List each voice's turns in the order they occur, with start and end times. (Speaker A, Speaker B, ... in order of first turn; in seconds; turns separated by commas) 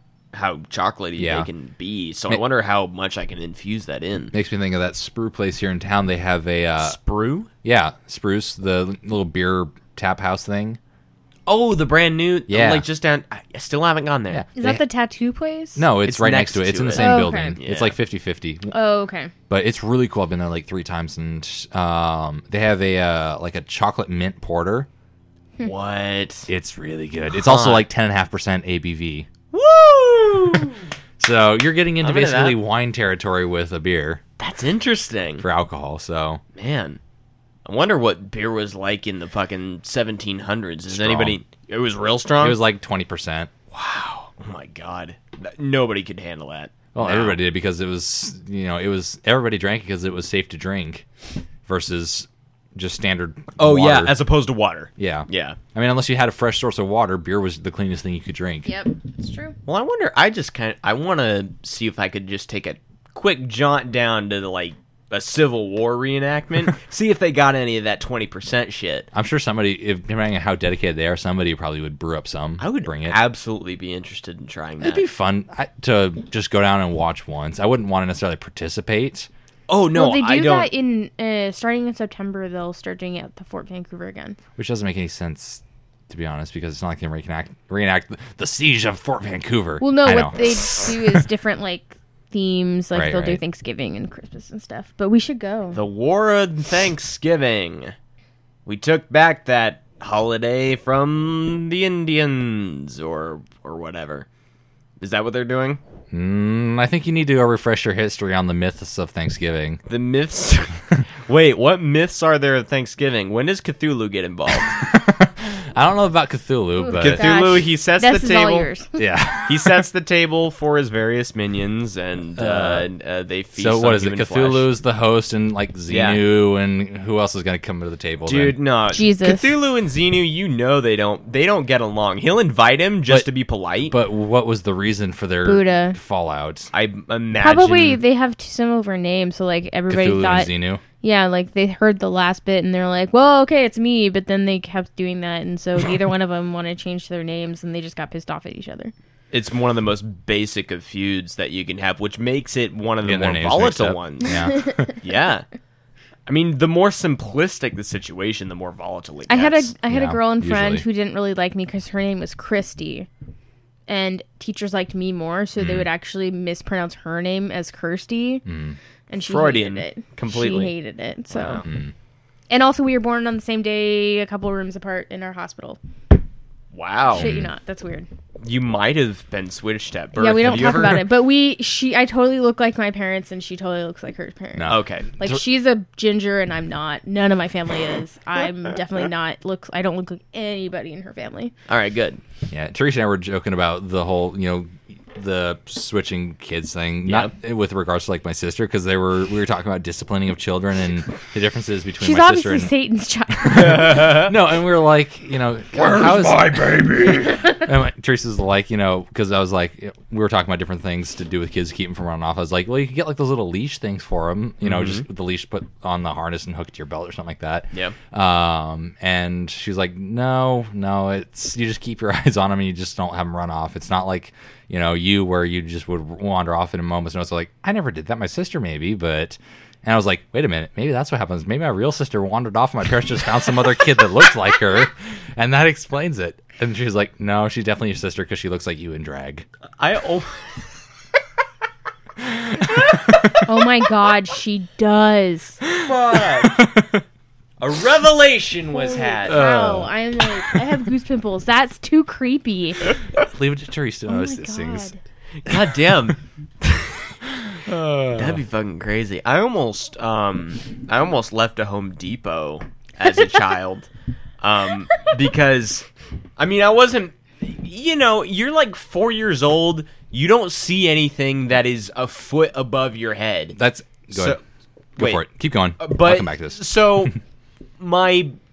Speaker A: 0.3-4.3, Speaker B: 1.2-1.5, Speaker B: 4.3-7.0, Speaker A: 6.8-7.5, Speaker B: 7.6-10.8, Speaker A: 11.5-14.5, Speaker B: 12.5-12.9, Speaker B: 14.3-14.8, Speaker C: 14.6-15.9, Speaker B: 15.8-18.7, Speaker A: 16.1-18.0, Speaker C: 16.9-17.6, Speaker C: 18.7-19.3, Speaker B: 19.5-24.9, Speaker A: 25.6-26.5, Speaker B: 26.5-29.3, Speaker A: 27.3-27.9, Speaker A: 29.5-30.8, Speaker B: 31.2-34.2, Speaker A: 32.0-32.6, Speaker A: 34.4-35.5, Speaker B: 35.4-36.4, Speaker A: 36.6-37.0, Speaker A: 37.6-42.6, Speaker B: 40.9-41.4, Speaker B: 42.4-43.5, Speaker A: 43.7-47.4, Speaker B: 47.0-51.1, Speaker B: 51.7-54.1, Speaker A: 53.6-55.6, Speaker B: 55.0-58.7, Speaker C: 58.6-59.6, Speaker A: 59.7-69.1, Speaker B: 69.1-73.2, Speaker A: 72.6-75.0, Speaker B: 74.8-79.3, Speaker A: 79.7-80.7, Speaker C: 79.9-84.4, Speaker B: 84.6-91.2, Speaker C: 89.8-95.8, Speaker B: 92.9-93.4, Speaker A: 95.7-97.9, Speaker A: 98.7-104.3, Speaker A: 105.0-105.8, Speaker B: 106.1-109.8, Speaker A: 109.9-114.7, Speaker B: 114.5-117.3, Speaker C: 116.8-119.0, Speaker A: 117.0-118.7, Speaker B: 119.0-119.8, Speaker A: 119.5-124.7, Speaker B: 122.4-122.9, Speaker B: 123.6-128.6, Speaker A: 125.9-126.2, Speaker A: 128.3-134.0, Speaker C: 128.9-129.5, Speaker B: 133.9-136.7, Speaker C: 135.4-136.0, Speaker A: 136.7-138.0, Speaker C: 137.4-148.9, Speaker B: 139.9-140.8, Speaker A: 149.3-154.4, Speaker B: 153.0-154.9, Speaker A: 155.0-155.4, Speaker A: 156.3-159.7, Speaker C: 159.3-163.1, Speaker B: 159.9-160.8, Speaker C: 163.9-168.4, Speaker B: 165.6-165.9, Speaker B: 168.4-168.8, Speaker C: 169.1-171.6, Speaker A: 169.2-170.7, Speaker B: 171.3-171.9, Speaker A: 171.4-171.6, Speaker C: 172.5-175.8, Speaker A: 176.7-177.3, Speaker C: 177.1-178.1, Speaker B: 177.2-177.5, Speaker A: 178.4-181.1, Speaker C: 180.2-191.5, Speaker B: 184.6-185.4, Speaker A: 184.7-185.2, Speaker A: 191.7-192.2, Speaker B: 192.5-202.7, Speaker A: 197.1-197.3, Speaker C: 202.0-203.9, Speaker B: 203.4-239.5, Speaker A: 203.5-204.3, Speaker A: 205.8-207.3, Speaker A: 214.6-215.1, Speaker A: 239.8-240.6, Speaker A: 242.6-243.4, Speaker C: 243.5-245.6, Speaker A: 245.7-246.6, Speaker B: 246.4-247.0, Speaker A: 247.6-249.4, Speaker C: 248.7-252.9, Speaker B: 249.3-249.9, Speaker B: 253.2-254.9, Speaker C: 254.1-255.0, Speaker A: 255.4-257.0, Speaker B: 257.6-258.4, Speaker A: 258.1-263.9, Speaker A: 264.4-265.9, Speaker A: 266.4-273.6, Speaker B: 273.6-274.4, Speaker A: 274.1-274.4, Speaker A: 275.0-275.2, Speaker B: 275.0-277.1, Speaker A: 275.8-277.2, Speaker A: 277.8-278.4